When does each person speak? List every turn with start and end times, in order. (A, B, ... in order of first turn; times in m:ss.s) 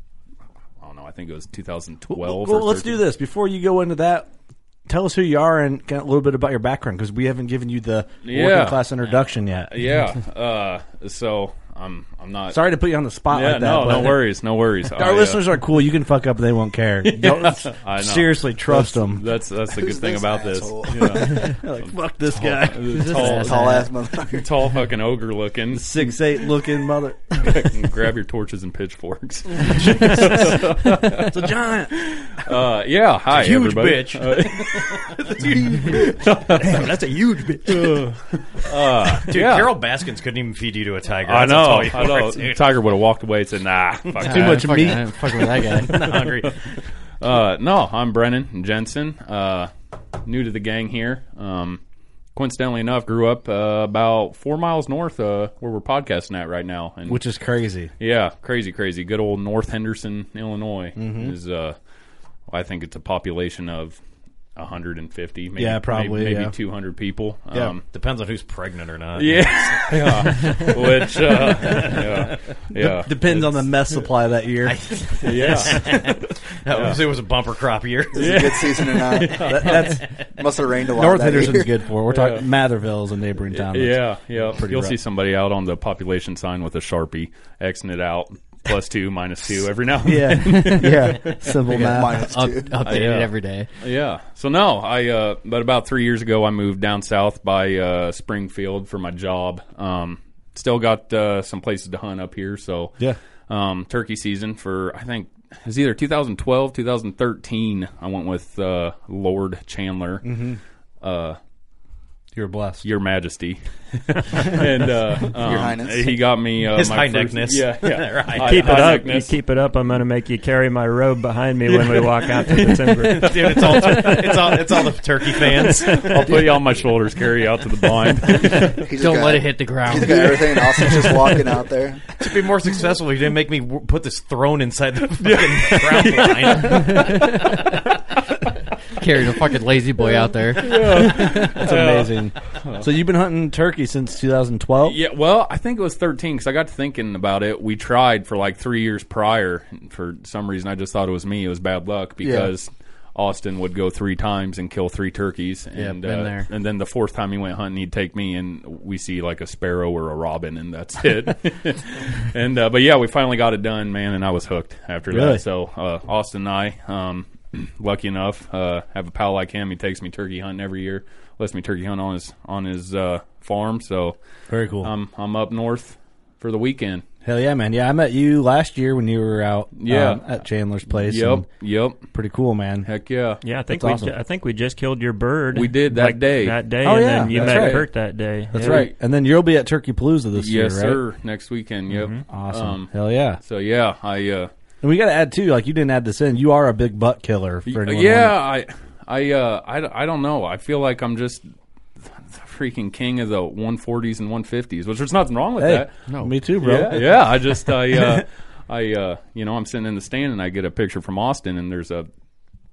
0:00.8-0:03.0 A
0:02.1-0:04.3 B
0:04.9-0:09.7 B
0:08.2-0:08.9 A
0:09.7-0:12.6 A
0:12.5-0:14.3 B
0:13.3-0:15.4 A
0:14.9-0:19.2 B
0:17.1-0:23.8 A
0:19.7-0:21.5 C
0:21.2-0:23.2 B
0:22.9-0:23.9 D
0:23.2-0:24.5 C
0:24.3-0:26.2 A
0:25.7-0:27.7 B
0:27.4-0:36.9 A
0:29.8-0:30.6 B
0:31.2-0:32.0 B
0:33.3-0:35.9 E
0:36.6-0:37.6 B
0:37.6-0:39.8 A
0:39.2-0:42.8 E
0:41.2-0:44.9 A
0:44.2-0:46.0 D
0:44.2-0:45.2 B
0:45.7-0:46.8 E
0:47.2-0:49.7 A
0:50.2-0:51.8 A
0:52.4-0:57.2 A
0:57.1-0:57.9 B
0:58.0-1:01.8 A
1:01.0-1:01.4 B
1:02.5-1:04.0 A
1:04.6-1:07.8 A
1:05.6-1:06.6 B
1:07.9-1:12.4 E
1:09.2-1:13.6 A
1:12.7-1:14.8 B
1:14.6-1:18.4 E
1:15.2-1:16.2 A
1:16.7-1:17.0 A
1:18.1-1:20.0 A
1:18.1-1:19.8 C
1:19.4-1:20.1 B
1:19.6-1:19.9 E
1:20.4-1:21.8 C
1:20.9-1:25.0 B
1:22.1-1:22.5 A
1:23.5-1:31.5 A
1:30.0-1:32.3 B
1:30.5-1:31.1 D
1:31.6-1:33.7 D
1:31.7-1:33.1 C
1:32.8-1:50.3 A
1:50.2-1:50.6 B
1:51.0-1:51.4 A
1:52.4-1:52.8 B
1:52.8-1:59.4 A
1:55.3-1:56.2 C
1:56.7-1:59.0 E
1:58.4-2:03.6 F
2:01.7-2:02.1 A
2:03.0-2:06.5 E
2:03.2-2:04.6 A
2:05.4-2:08.8 A
2:08.3-2:11.4 D
2:08.9-2:12.1 C
2:12.2-2:17.3 E
2:15.2-2:17.0 A
2:16.7-2:17.6 D
2:19.0-2:21.7 D
2:20.6-2:22.9 A
2:21.0-2:25.0 B
2:24.8-2:54.2 A
2:35.7-2:36.5 D
2:45.1-2:45.4 B
2:54.5-2:54.9 B
2:54.8-2:57.0 A
2:57.2-3:01.5 B
2:59.8-3:00.3 A
3:00.9-3:02.1 A
3:02.1-3:02.9 B
3:02.8-3:03.4 A
3:03.4-3:08.9 F
3:03.7-3:04.1 B
3:05.5-3:06.6 A
3:06.8-3:07.9 B
3:07.3-3:07.8 A
3:08.5-3:11.0 B
3:08.6-3:08.9 A
3:10.4-3:14.5 A
3:11.9-3:12.2 F
3:12.3-3:13.4 B
3:14.8-3:18.4 B
3:17.7-3:21.5 A
3:22.1-3:26.0 A
3:25.6-3:28.2 B
3:26.1-3:26.4 D
3:26.6-3:32.1 A